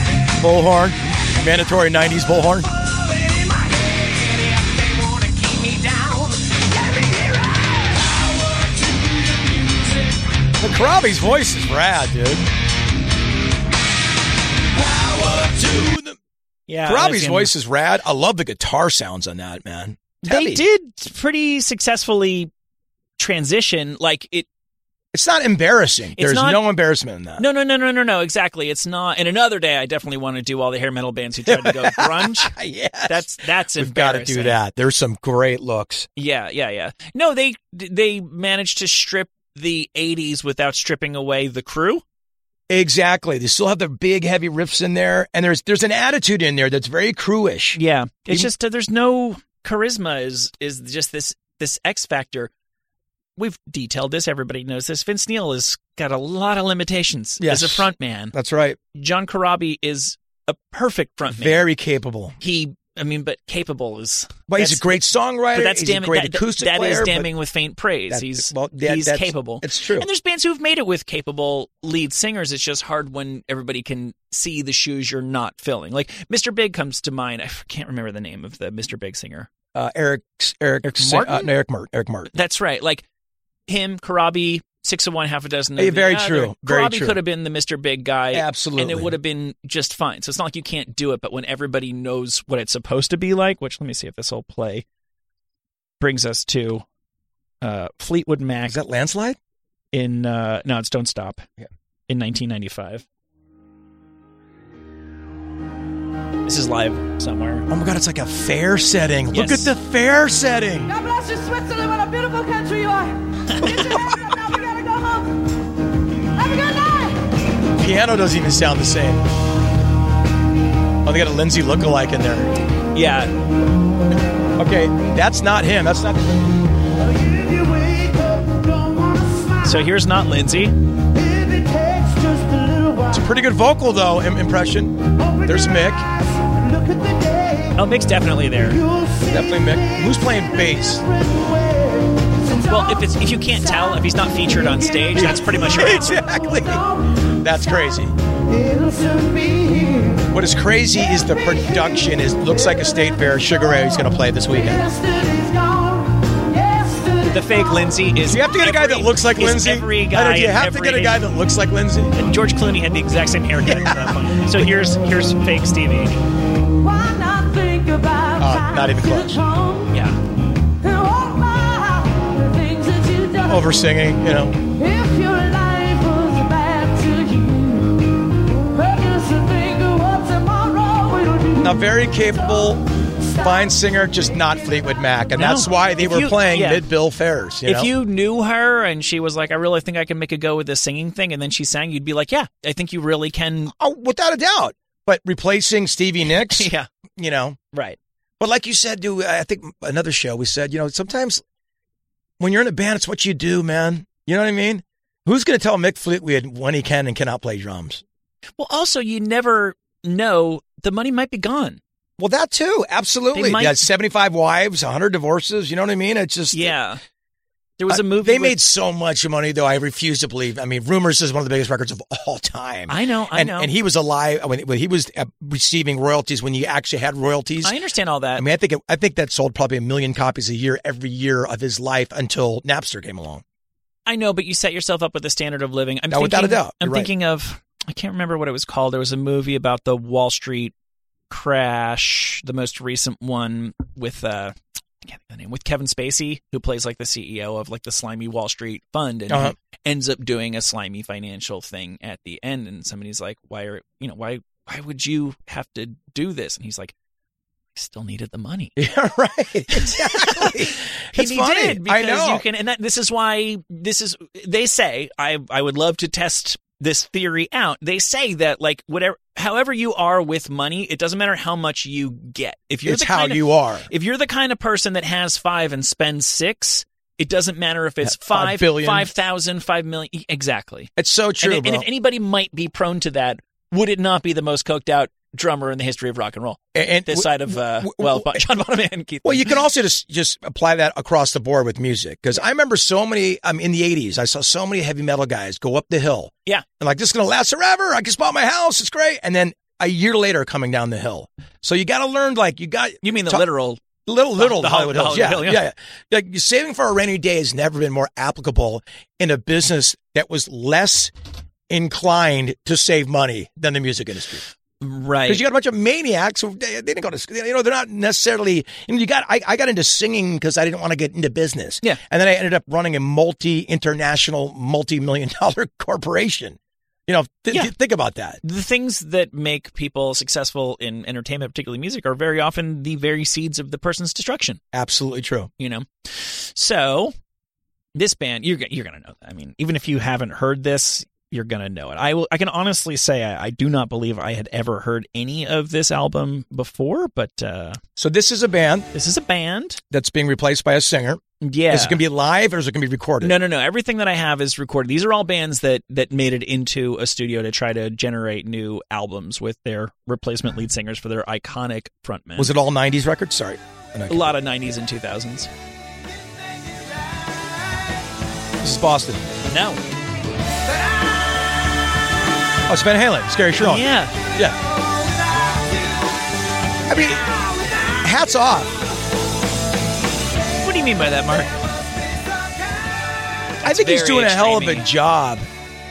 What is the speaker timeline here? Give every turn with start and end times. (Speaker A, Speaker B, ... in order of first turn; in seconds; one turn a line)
Speaker A: 0.3-2.7
Speaker B: 2.8-10.1
Speaker A: 10.6-12.5
Speaker B: 14.8-15.9
Speaker A: 15.7-16.2
Speaker C: 16.7-17.5
Speaker A: 16.8-20.6
Speaker C: 20.2-22.5
Speaker C: 23.2-24.5
Speaker A: 25.1-27.4
Speaker C: 26.2-26.6
Speaker C: 27.4-32.5
Speaker A: 31.4-36.1
Speaker C: 33.1-34.6
Speaker C: 36.1-42.0
Speaker A: 42.7-48.5
Speaker C: 47.7-52.5
Speaker C: 53.4-58.3
Speaker A: 57.4-58.8
Speaker C: 58.9-61.6
Speaker A: 61.3-62.4
Speaker C: 62.4-64.9
Speaker A: 64.5-67.3
Speaker C: 65.5-79.5
Speaker A: 68.1-70.1
Speaker A: 79.7-82.3
Speaker C: 80.8-81.5
Speaker C: 82.3-83.0
Speaker C: 83.7-94.8
Speaker A: 85.8-87.2
Speaker A: 88.3-89.1
Speaker C: 96.0-96.8
Speaker C: 97.6-98.8
Speaker A: 98.7-99.4
Speaker C: 99.9-101.5
Speaker C: 102.1-103.0
Speaker C: 106.5-107.7
Speaker A: 107.7-110.9
Speaker C: 109.3-109.7
Speaker B: 110.9-115.4
Speaker C: 113.5-114.0
Speaker B: 116.3-117.2
Speaker A: 117.8-119.2
Speaker A: 121.0-122.5
Speaker C: 122.9-123.3
Speaker A: 124.6-126.5
Speaker B: 127.1-129.7
Speaker C: 129.6-130.7
Speaker B: 131.1-133.2
Speaker A: 133.1-136.0
Speaker B: 135.5-137.7
Speaker C: 137.7-138.8
Speaker B: 138.8-139.6
Speaker A: 139.3-141.0
Speaker B: 141.2-142.7
Speaker C: 142.7-146.2
Speaker A: 145.1-148.1
Speaker B: 146.2-146.9
Speaker B: 148.5-150.2
Speaker A: 150.3-154.9
Speaker B: 154.7-157.8
Speaker C: 157.2-161.2
Speaker A: 158.2-162.1
Speaker C: 162.1-166.2
Speaker A: 163.6-164.7
Speaker B: 166.8-169.9
Speaker A: 168.4-169.4
Speaker C: 169.9-170.2
Speaker B: 170.8-173.7
Speaker A: 173.4-174.6
Speaker B: 174.6-181.7
Speaker A: 181.6-187.9
Speaker C: 185.3-186.8
Speaker C: 187.6-193.7
Speaker A: 193.7-197.6
Speaker C: 196.5-196.9
Speaker A: 198.4-201.4
Speaker A: 202.4-208.0
Speaker C: 208.6-211.8
Speaker A: 212.2-216.7
Speaker C: 213.3-213.8
Speaker C: 216.5-217.0
Speaker C: 217.8-218.6
Speaker A: 217.9-227.7
Speaker C: 222.9-223.7
Speaker C: 227.6-228.4
Speaker A: 228.3-233.4
Speaker C: 234.1-240.7
Speaker A: 236.1-237.1
Speaker C: 241.3-256.9
Speaker A: 249.3-249.5
Speaker C: 257.7-258.8
Speaker A: 258.8-262.4
Speaker C: 259.7-289.5
Speaker A: 272.8-273.9
Speaker A: 278.1-279.1
Speaker A: 281.0-281.9
Speaker A: 286.7-288.4
Speaker A: 289.2-303.4
Speaker C: 303.0-303.8
Speaker A: 304.1-311.1
Speaker C: 304.4-305.6
Speaker A: 311.7-314.4
Speaker C: 314.8-315.4
Speaker A: 315.3-328.4
Speaker C: 328.4-334.6
Speaker A: 334.7-335.5
Speaker C: 335.6-337.1
Speaker C: 337.9-347.8
Speaker A: 348.0-348.9
Speaker C: 348.9-349.8
Speaker A: 349.9-353.4
Speaker C: 351.4-352.0
Speaker C: 353.2-362.5
Speaker A: 362.4-364.3
Speaker C: 364.1-365.5
Speaker A: 368.6-369.3
Speaker C: 369.5-369.8
Speaker A: 372.7-374.6
Speaker C: 373.6-374.1
Speaker B: 374.7-375.9
Speaker A: 376.9-377.3
Speaker B: 377.2-377.7
Speaker A: 378.0-378.7
Speaker C: 380.6-381.5
Speaker C: 383.6-384.9
Speaker A: 383.6-385.5